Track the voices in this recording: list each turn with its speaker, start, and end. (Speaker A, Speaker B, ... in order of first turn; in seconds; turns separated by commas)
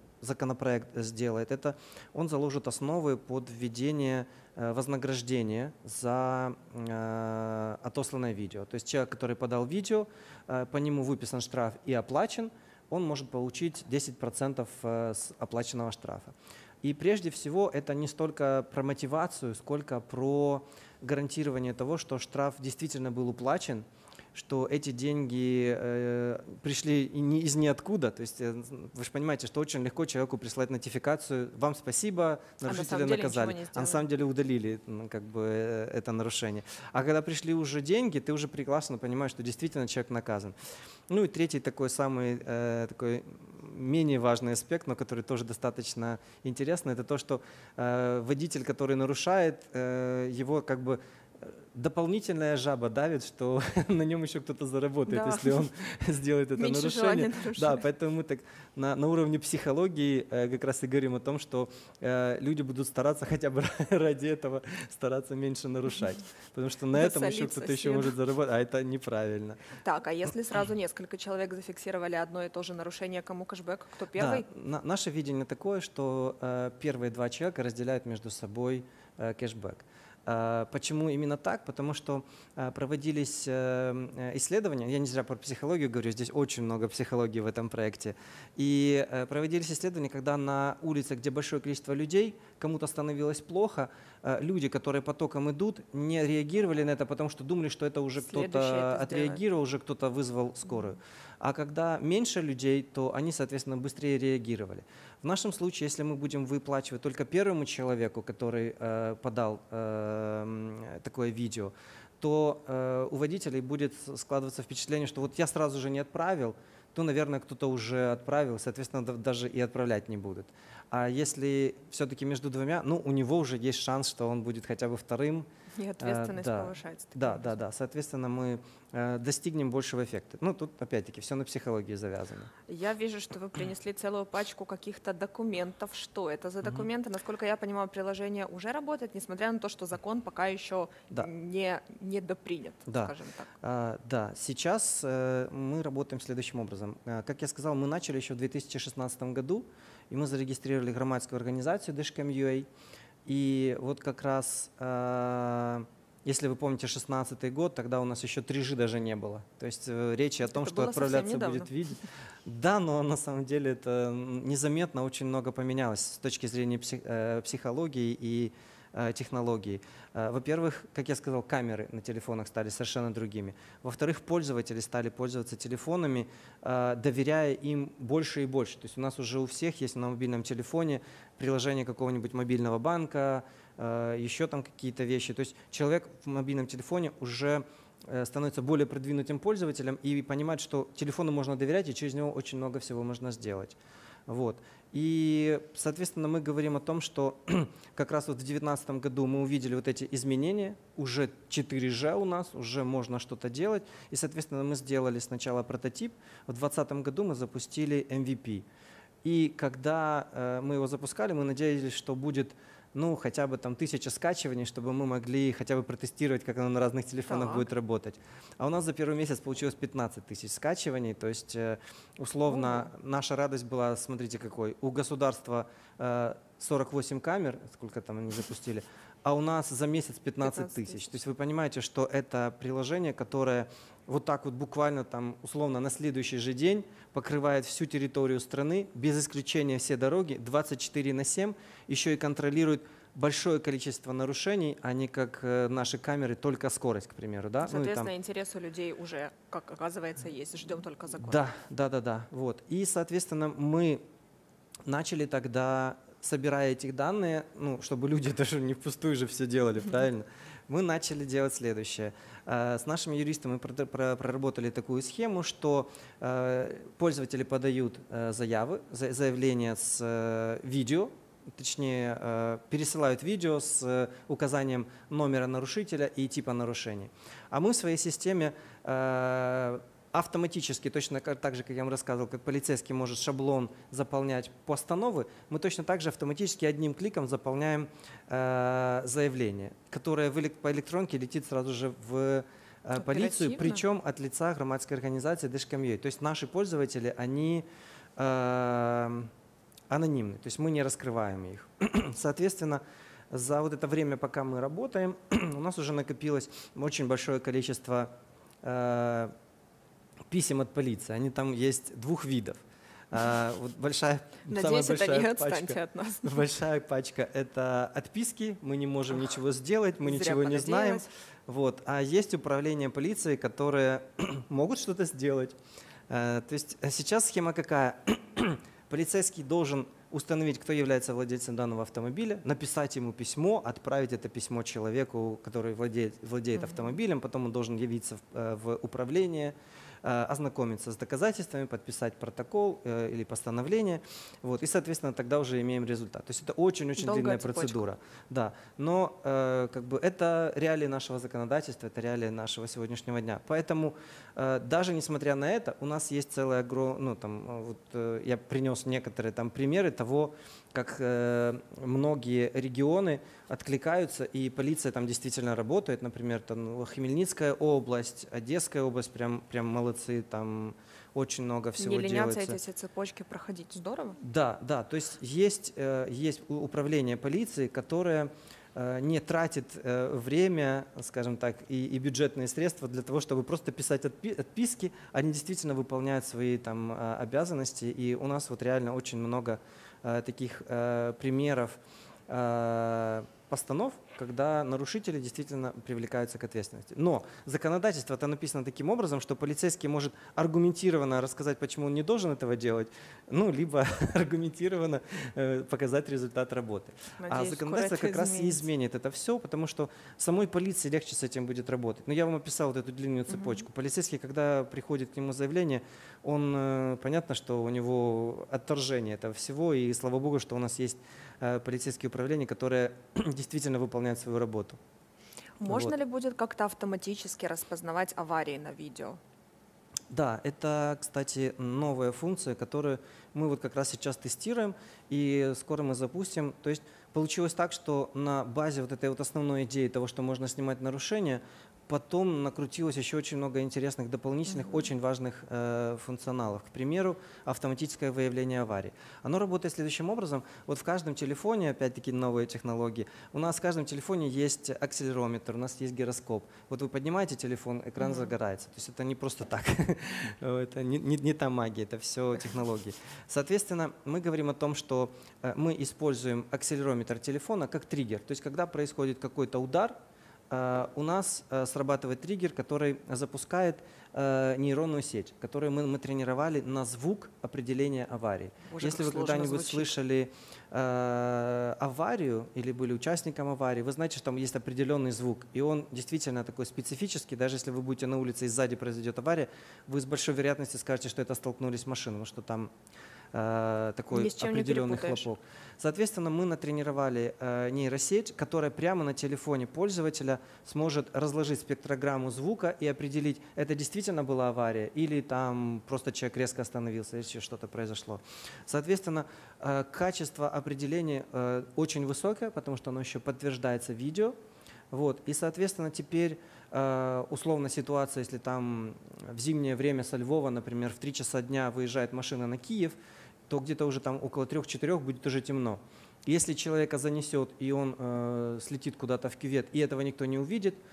Speaker A: 0.2-40.5, Speaker B: 32.6-34.0, Speaker A: 41.1-69.6, Speaker B: 55.1-55.7, Speaker B: 56.5-57.9, Speaker B: 66.9-68.1, Speaker B: 69.8-74.5, Speaker A: 74.1-125.5, Speaker B: 98.2-99.4, Speaker B: 125.7-127.5, Speaker A: 126.0-132.5, Speaker B: 132.7-143.5, Speaker A: 142.9-152.7, Speaker A: 153.2-208.7, Speaker B: 160.4-161.7, Speaker A: 209.2-248.1, Speaker B: 217.3-217.7, Speaker B: 222.5-222.9, Speaker B: 230.4-231.1, Speaker B: 247.6-251.5, Speaker A: 251.2-254.0, Speaker A: 254.8-297.6, Speaker B: 292.9-293.8, Speaker A: 298.2-299.3, Speaker A: 299.9-308.1, Speaker A: 308.6-309.3, Speaker A: 310.3-325.6, Speaker B: 314.4-316.4, Speaker B: 320.0-321.1, Speaker A: 326.1-372.6, Speaker B: 347.0-347.8, Speaker B: 371.8-374.2, Speaker A: 374.2-424.8, Speaker B: 407.2-408.6, Speaker B: 413.3-413.6, Speaker B: 425.6-429.2, Speaker A: 425.6-425.9, Speaker A: 430.1-470.0, Speaker B: 444.5-444.9, Speaker B: 458.0-458.3, Speaker A: 470.5-492.7, Speaker B: 478.7-479.9, Speaker A: 493.3-514.3, Speaker B: 494.1-495.3, Speaker A: 514.9-523.0, Speaker A: 523.5-530.8